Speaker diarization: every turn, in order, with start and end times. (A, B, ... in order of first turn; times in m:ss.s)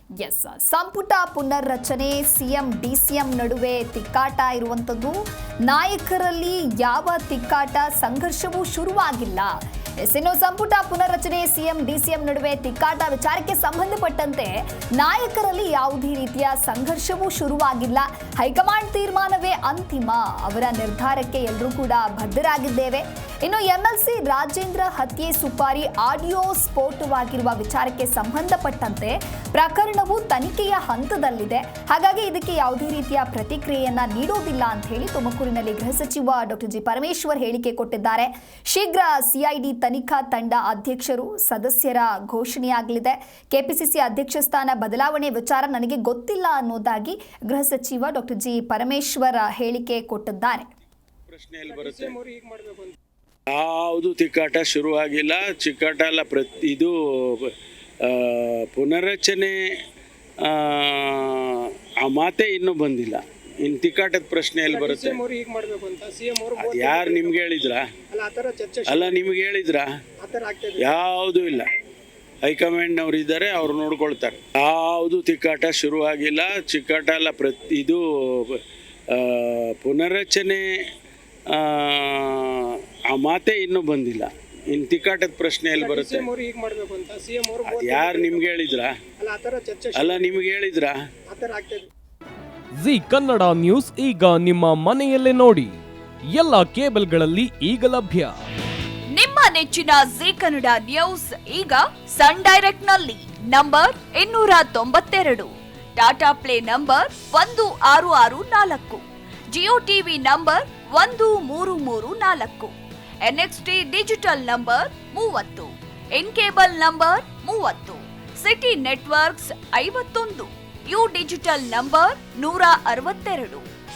0:00.2-0:50.7 A
0:51.3-0:52.2 B
0:51.7-0:53.0 C
0:53.5-0:57.5 B
0:58.0-0:59.6 B
1:00.4-1:05.2 B
1:04.7-1:07.4 C
1:06.6-1:07.8 B
1:08.1-1:09.2 C
1:08.9-1:09.9 B
1:10.2-1:10.8 C
1:10.8-1:11.7 B
1:12.4-1:18.6 B
1:19.1-1:20.6 B
1:21.5-1:26.3 B
1:25.8-1:28.5 C
1:27.6-1:28.9 B
1:29.2-1:30.4 C
1:30.0-1:31.0 B
1:31.3-1:31.9 C
1:32.8-1:38.4 D
1:39.1-1:52.7 E
1:53.2-2:03.6 E